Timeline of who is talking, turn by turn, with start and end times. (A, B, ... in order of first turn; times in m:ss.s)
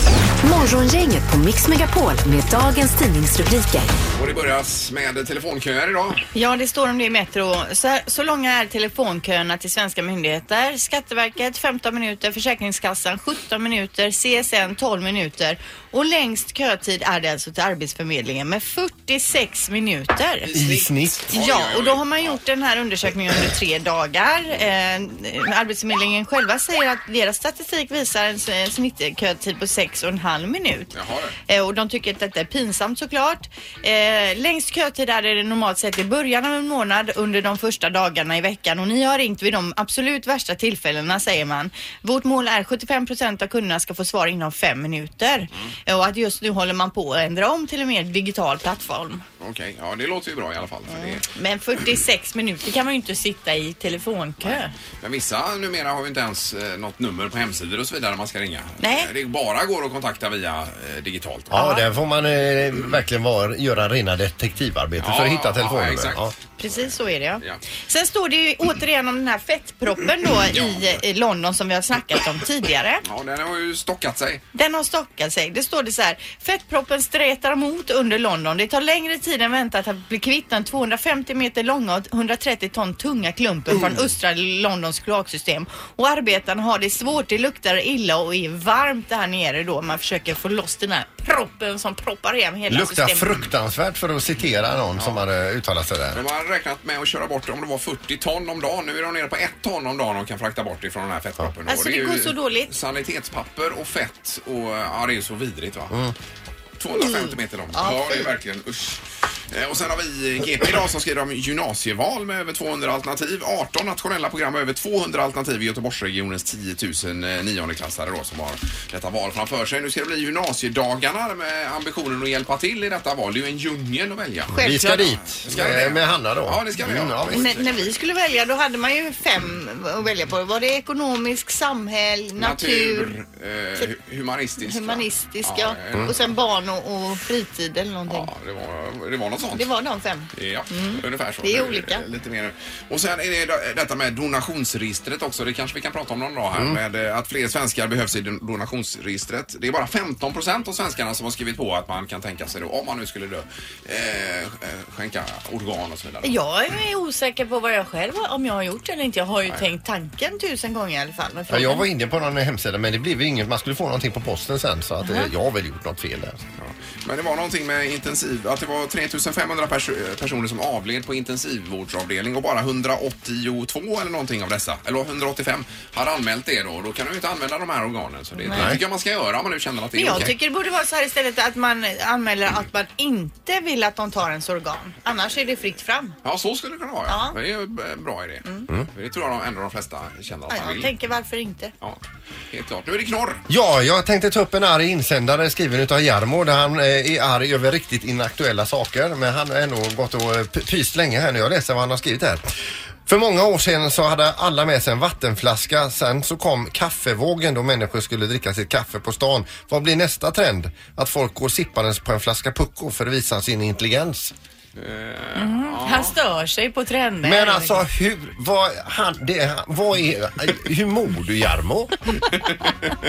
0:00.4-0:03.9 A
0:04.2-0:06.2 B
0:06.3-0:20.5 C
0:20.5-0:22.4 B
0:20.5-0:21.2 D
0:21.3-0:30.9 C
0:30.9-0:31.4 B
0:31.5-0:49.2 C
0:49.4-0:51.2 B
0:50.9-0:54.7 C
0:54.5-1:01.6 B
0:58.8-0:59.1 C
1:01.5-1:06.3 D
1:01.5-1:01.8 C
1:05.0-1:06.8 B
1:06.6-1:13.0 C
1:10.5-1:11.0 B
1:13.0-1:14.4 B
1:14.5-1:33.4 C
1:32.7-1:36.2 D
1:35.0-1:35.2 B
1:36.2-1:46.0 B
1:41.7-1:42.7 C
1:46.8-2:04.6 B
1:47.0-1:48.3 C
2:04.5-2:07.6 D
2:04.5-2:05.1 C
2:05.4-2:07.8 B
2:07.3-2:13.1 C
2:12.4-2:16.2 B
2:14.6-2:18.3 C
2:18.1-2:19.7 B
2:19.5-2:22.0 C
2:20.3-2:36.4 B
2:36.2-2:41.8 C
2:41.5-2:46.4 D
2:45.0-2:45.3 C
2:46.6-3:00.3 B
2:58.4-2:58.7 C
2:58.5-2:58.8 D
3:00.0-3:06.2 C
3:06.2-3:10.9 B
3:07.1-3:07.4 C
3:10.5-3:11.7 C
3:12.5-3:13.4 B
3:13.5-3:22.5 D
3:23.1-3:34.3 D
3:34.8-3:36.2 B
3:35.4-3:37.8 C
3:37.2-3:42.1 D
3:42.3-3:42.7 B